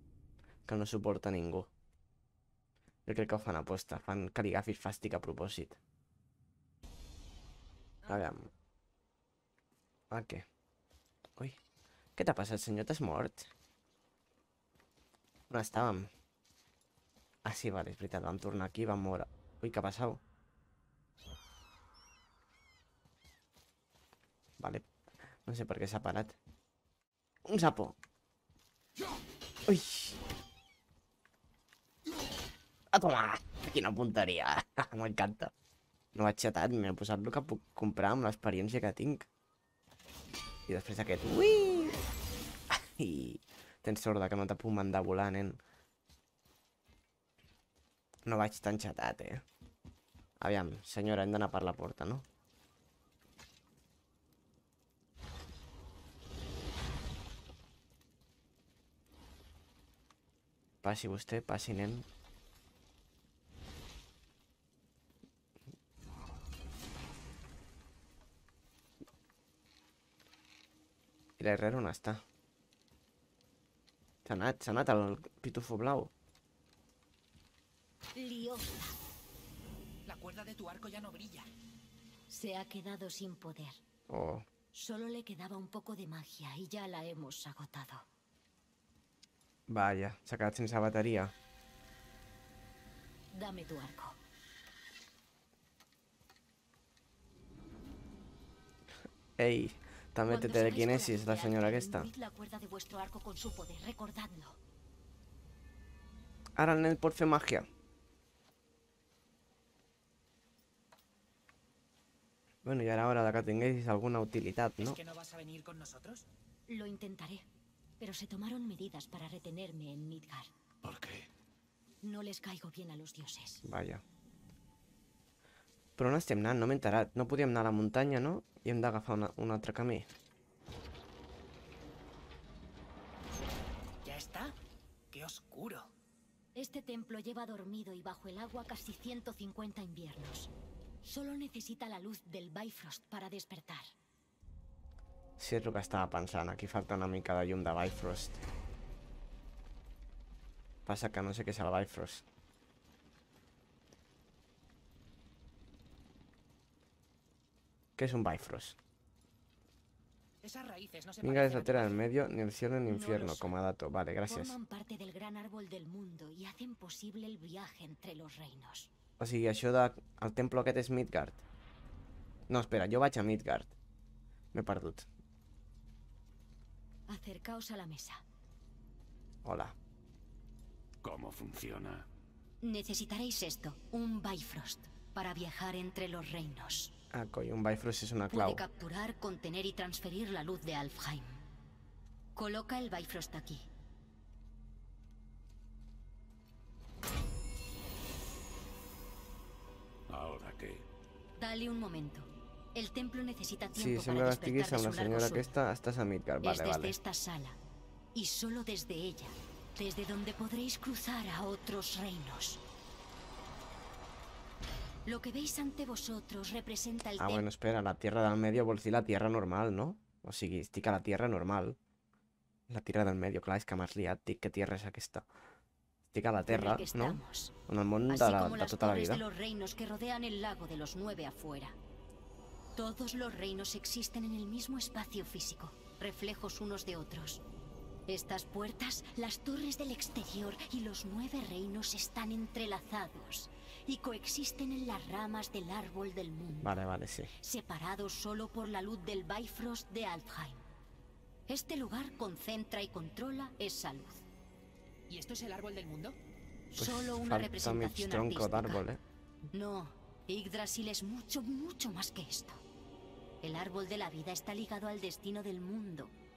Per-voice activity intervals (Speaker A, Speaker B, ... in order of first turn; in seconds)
Speaker A: 0.7-1.7, 3.1-5.8, 8.1-8.5, 10.1-10.5, 12.2-13.5, 15.5-16.1, 17.4-20.2, 24.6-24.9, 25.4-26.4, 27.5-28.0, 29.7-30.2, 32.9-35.5, 36.1-39.3, 40.7-42.0, 42.7-45.6, 48.3-49.5, 50.4-52.3, 60.8-62.1, 71.4-72.2, 74.2-76.1, 84.1-84.5, 89.7-91.3, 99.4-102.1, 106.6-107.7, 112.6-115.0, 123.7-124.0, 126.0-130.1, 145.4-148.4, 150.8-152.2, 158.0-158.8, 161.2-164.5, 169.2-171.4, 172.5-173.7, 174.5-175.1, 179.4-179.8, 187.1-188.6, 203.7-206.9, 217.2-221.8, 222.7-225.2, 226.1-229.2, 246.6-247.3, 256.8-259.0
Speaker B: 8.0-8.3, 80.1-81.5, 114.8-116.2, 134.0-134.6, 135.1-135.9, 160.4-162.0, 255.1-256.2
Speaker C: 78.2-78.8, 82.3-83.8, 84.7-88.1, 93.3-94.2, 100.3-104.6, 116.7-117.5, 118.0-120.5, 122.0-123.7, 136.6-140.5, 141.0-143.9, 162.9-163.6, 164.2-168.9, 177.1-178.2, 182.6-186.9, 188.3-191.4, 192.4-193.7, 201.4-205.6, 206.4-207.6, 208.1-212.6, 215.1-217.5, 226.5-227.5, 228.1-231.8, 232.8-237.4, 238.1-246.7, 247.4-250.7, 251.5-254.2, 256.7-258.8, 259.5-262.6, 263.4-266.1
Speaker D: 120.8-121.3, 181.0-182.1, 200.1-200.9